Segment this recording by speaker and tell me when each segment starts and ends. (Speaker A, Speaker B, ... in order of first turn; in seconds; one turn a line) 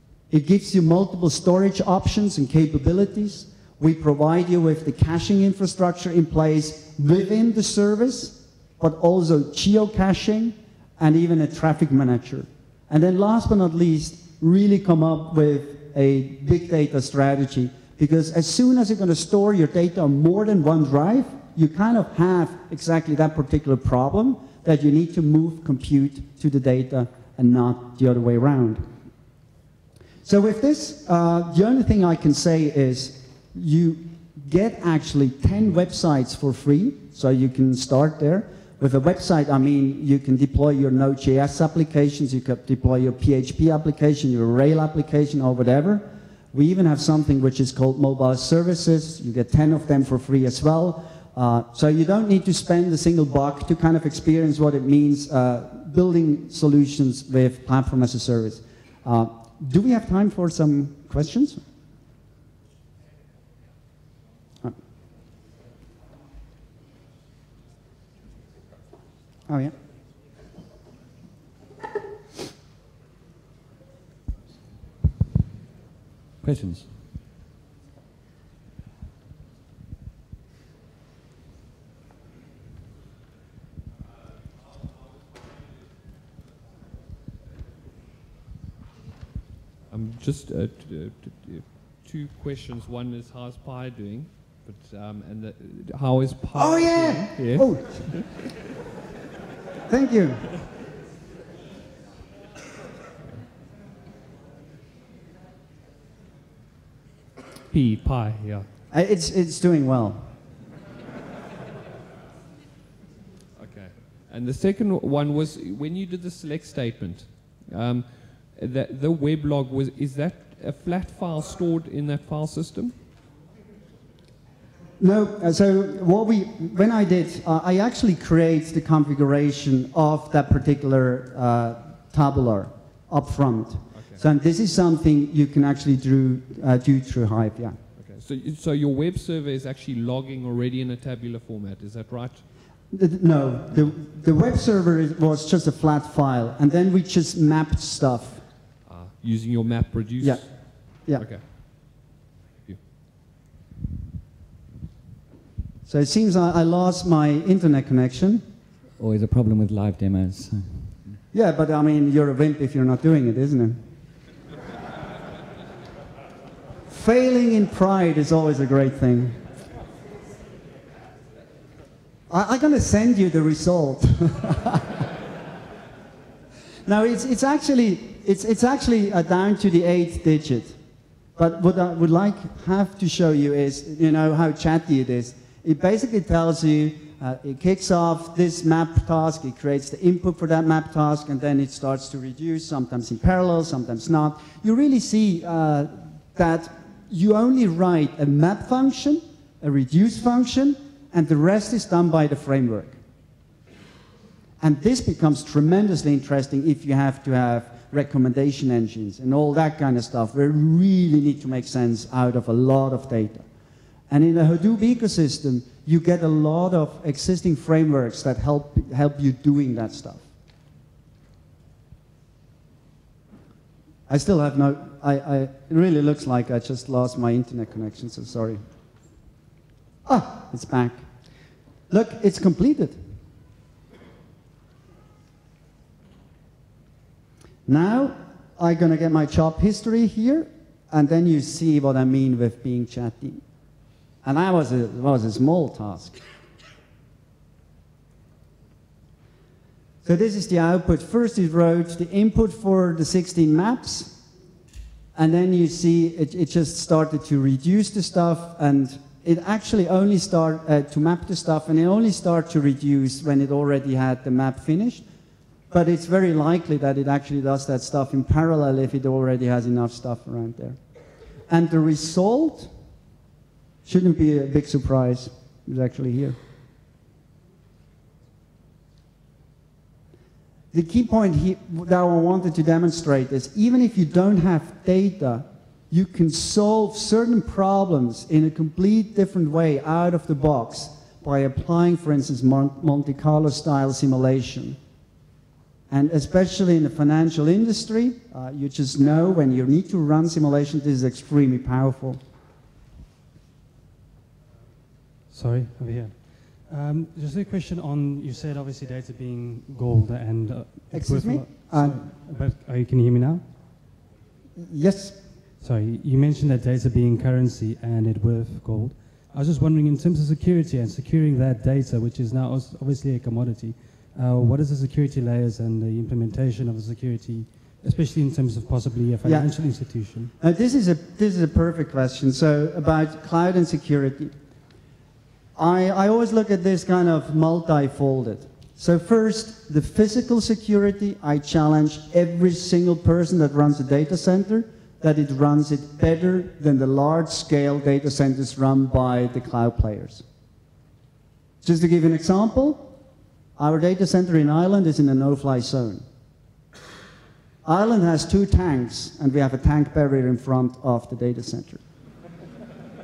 Speaker A: 0.3-28.8
Speaker A: 30.2-61.6
Speaker A: 69.5-69.8
Speaker B: 76.4-76.9
Speaker C: 89.9-98.5
Speaker A: 96.5-98.2
Speaker A: 99.9-100.5
Speaker C: 107.7-108.7
Speaker A: 108.9-110.3
Speaker C: 113.6-122.9
Speaker A: 125.0-137.8
Speaker C: 133.9-134.2
Speaker C: 138.0-142.4
Speaker A: 142.9-148.4
Speaker C: 148.9-151.4
Speaker A: 150.2-151.3
Speaker A: 155.9-158.4
Speaker B: 159.0-161.2
Speaker A: 161.3-163.8
Speaker A: 166.9-169.4
Speaker A: 172.3-175.0
Speaker A: 176.9-180.8
Speaker A: 181.4-203.0
Speaker A: 204.6-213.4
Speaker A: 214.1-220.3
Speaker A: 224.1-228.6
Speaker A: 230.1-231.0
Speaker A: 231.9-233.0
Speaker A: 237.7-243.4
Speaker A: 244.2-246.2
Speaker A: 250.0-254.2
Speaker A: 255.2-265.0
Speaker A: 265.7-270.8
Speaker A: 271.5-272.7
Speaker A: 273.9-276.4
Speaker A: 280.7-294.8
Speaker A: 295.9-302.2
Speaker D: 305.3-313.4
Speaker A: 310.9-312.0
Speaker A: 314.6-315.2
Speaker D: 315.6-330.3
Speaker A: 329.2-329.5
Speaker A: 330.4-334.3
Speaker A: 335.6-350.2
Speaker A: 351.6-352.9
Speaker A: 353.6-356.0
Speaker A: 357.6-361.8